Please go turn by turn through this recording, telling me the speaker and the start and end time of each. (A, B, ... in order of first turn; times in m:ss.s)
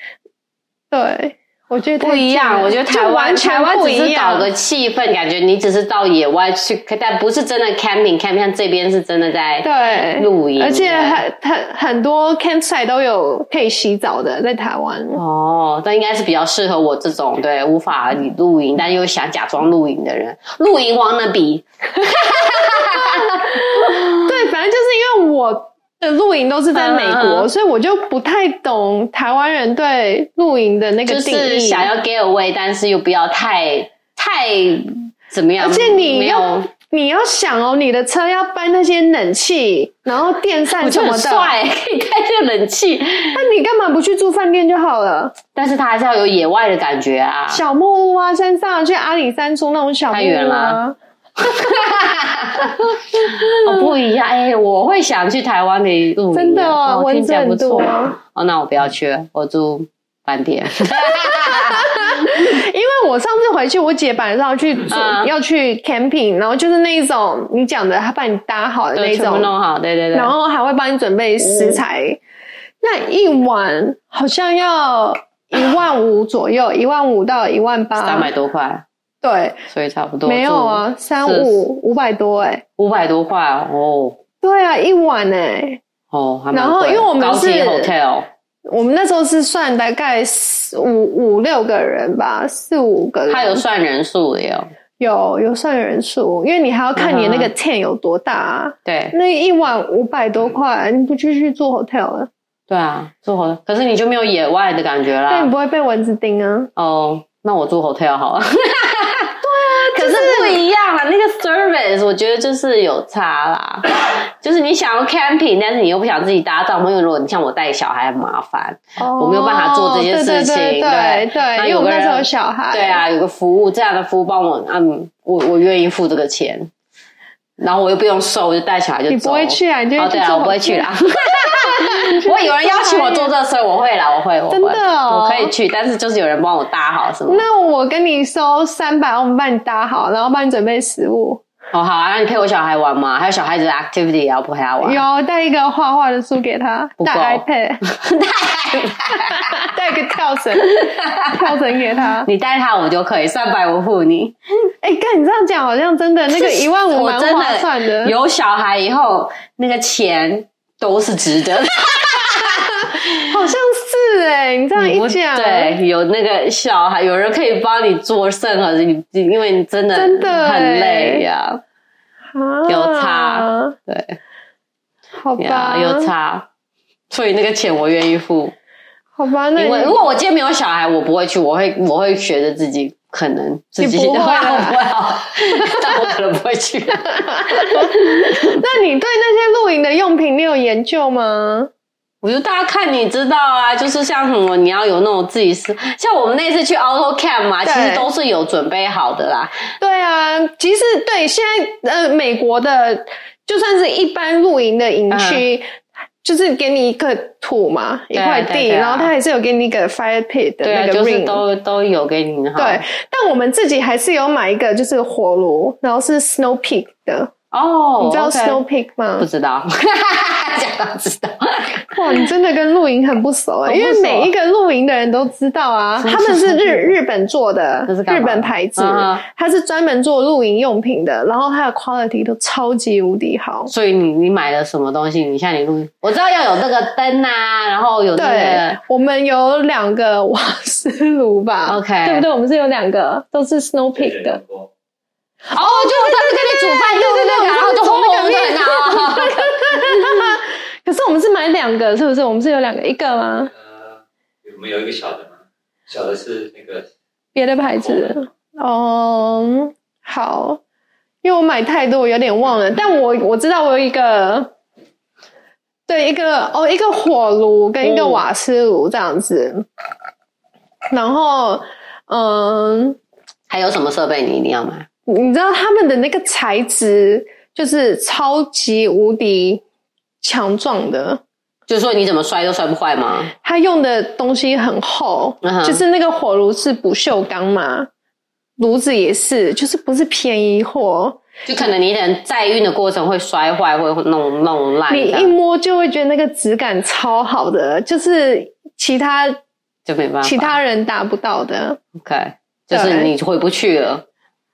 0:00.9-0:04.5 A
0:02.0-0:11.2 B
0:09.6-0:15.2 A
0:15.1-0:24.3 B
0:22.3-0:31.9 A
0:26.7-0:27.5 B
0:31.0-0:36.7 B
0:35.6-0:41.5 A
0:40.8-0:43.4 B
0:43.3-0:45.4 A
0:45.5-0:47.6 B
0:47.5-0:51.0 A
0:50.1-0:50.8 B
0:51.4-1:02.4 B
0:53.1-0:53.8 A
0:56.3-0:58.2 A
1:01.0-1:09.5 A
1:04.9-1:05.3 B
1:09.0-1:10.3 B
1:10.1-1:12.2 A
1:11.4-1:11.8 B
1:12.8-1:18.3 A
1:18.0-1:18.8 B
1:19.2-1:19.6 A
1:19.7-1:21.6 B
1:20.2-1:22.6 A
1:22.8-1:24.2 B
1:24.4-1:25.8 A
1:26.1-1:28.3 B
1:26.5-1:27.9 A
1:28.7-1:33.6 A
1:33.3-1:34.7 B
1:35.0-1:42.3 A
1:36.9-1:37.5 B
1:38.8-1:39.1 B
1:42.7-1:45.5 B
1:45.3-1:46.7 A
1:46.8-2:06.7 B
1:49.4-1:50.6 A
1:59.0-2:03.0 A
2:07.6-2:17.4 B
2:09.1-2:13.3 A
2:14.5-2:15.5 A
2:17.3-2:21.4 A
2:21.7-2:25.0 B
2:24.8-2:27.8 A
2:27.0-2:29.7 B
2:29.2-2:32.3 A
2:30.6-2:31.6 B
2:32.2-2:34.4 B
2:34.8-2:38.1 A
2:36.3-2:43.1 B
2:42.4-2:45.7 A
2:44.7-2:51.6 B
2:49.9-2:51.2 A
2:52.3-2:53.8 A
2:52.7-2:54.2 B
2:55.2-2:56.1 A
2:55.4-2:56.5 B
2:57.1-2:58.5 B
2:59.2-3:00.0 A
2:59.6-3:08.6 B
3:03.8-3:04.8 A
3:05.6-3:05.9 A
3:07.3-3:11.7 A
3:12.2-3:19.6 B
3:17.6-3:18.1 A
3:19.8-3:31.4 A
3:25.1-3:25.4 B
3:28.1-3:29.1 B
3:30.6-3:32.8 B
3:32.6-3:37.3 A
3:37.5-3:38.6 B
3:38.0-3:39.3 A
3:39.2-3:42.2 B
3:41.9-3:53.7 A
3:43.6-3:44.3 B
3:46.0-3:47.0 B
3:47.9-3:49.2 B
3:53.7-3:58.8 B
3:58.2-4:04.4 A
4:01.7-4:02.3 B
4:03.9-4:04.7 C
4:05.5-4:13.5 A
4:05.5-4:10.3 B
4:13.5-4:16.9 C
4:17.3-4:20.6 A
4:17.8-4:18.1 C
4:21.2-4:24.5 A
4:25.9-4:29.6 A
4:27.8-4:28.2 B
4:30.9-4:33.0 A
4:33.5-4:34.9 B
4:35.1-4:39.6 A
4:40.2-4:41.2 A
4:41.7-4:43.3 B
4:43.4-4:47.9 A
4:45.4-4:45.8 B
4:48.6-4:51.2 A
4:51.4-4:55.3 B
4:54.9-4:59.4 A
4:59.8-5:00.6 B
5:00.2-5:01.8 A
5:01.9-5:04.0 B
5:02.7-5:03.1 A